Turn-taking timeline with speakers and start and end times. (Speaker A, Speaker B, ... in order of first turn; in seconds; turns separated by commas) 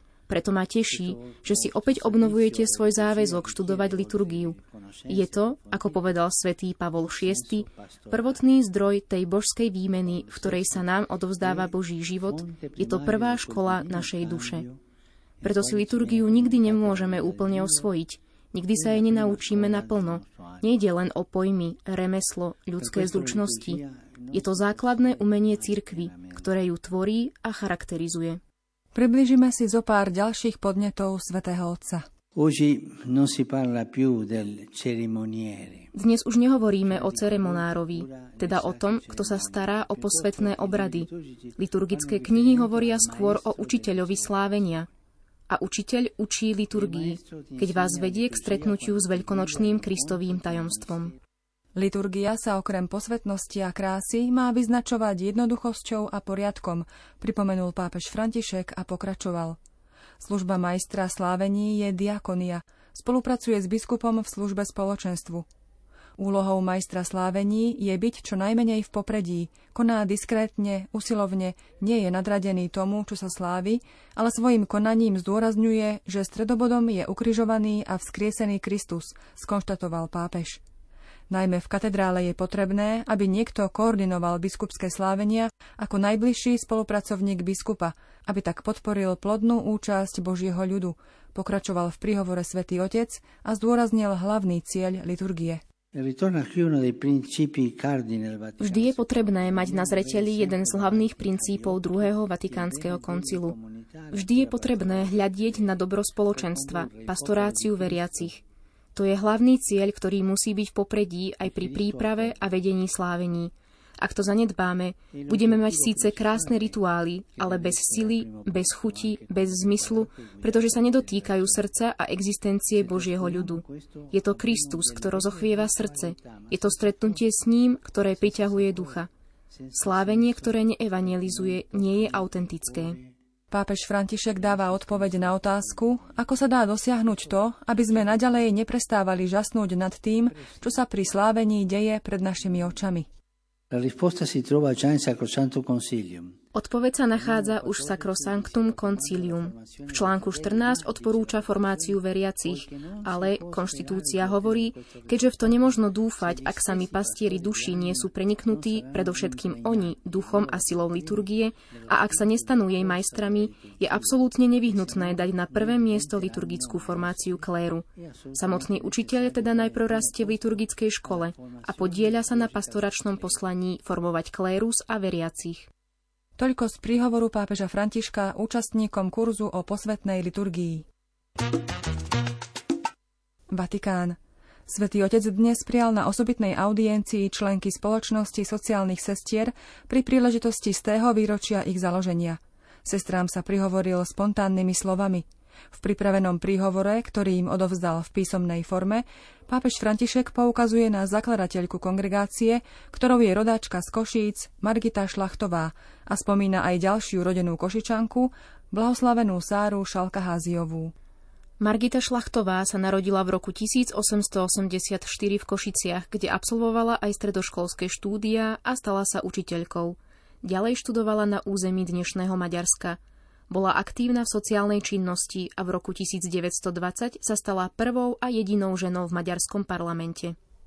Speaker A: 0.3-14.7, Speaker B: 0.9-6.2, Speaker B: 6.9-8.4, Speaker B: 10.0-11.8, Speaker B: 12.3-14.8, Speaker B: 15.4-17.9, Speaker A: 15.4-23.8, Speaker B: 18.7-20.6, Speaker B: 22.8-26.4, Speaker A: 24.3-28.4, Speaker C: 28.9-32.1, Speaker B: 32.4-35.9, Speaker A: 35.9-44.9, Speaker B: 36.8-44.5, Speaker A: 45.5-51.1, Speaker B: 46.7-51.2, Speaker C: 51.8-59.6, Speaker C: 60.2-65.5, Speaker C: 66.2-80.6, Speaker C: 81.3-95.6, Speaker B: 95.9-105.8, Speaker A: 98.6-103.6, Speaker A: 104.1-108.4, Speaker B: 106.3-108.3, Speaker A: 109.0-129.1, Speaker B: 111.4-112.5, Speaker B: 115.1-116.8, Speaker B: 117.4-121.7, Speaker B: 122.6-127.2, Speaker B: 128.1-133.1, Speaker A: 129.7-133.0, Speaker C: 133.5-143.1, Speaker B: 134.4-136.0, Speaker B: 143.7-146.4, Speaker A: 146.5-175.7, Speaker B: 147.1-173.4, Speaker C: 176.4-180.9, Speaker C: 183.5-210.9, Speaker A: 211.6-223.0, Speaker A: 223.5-230.4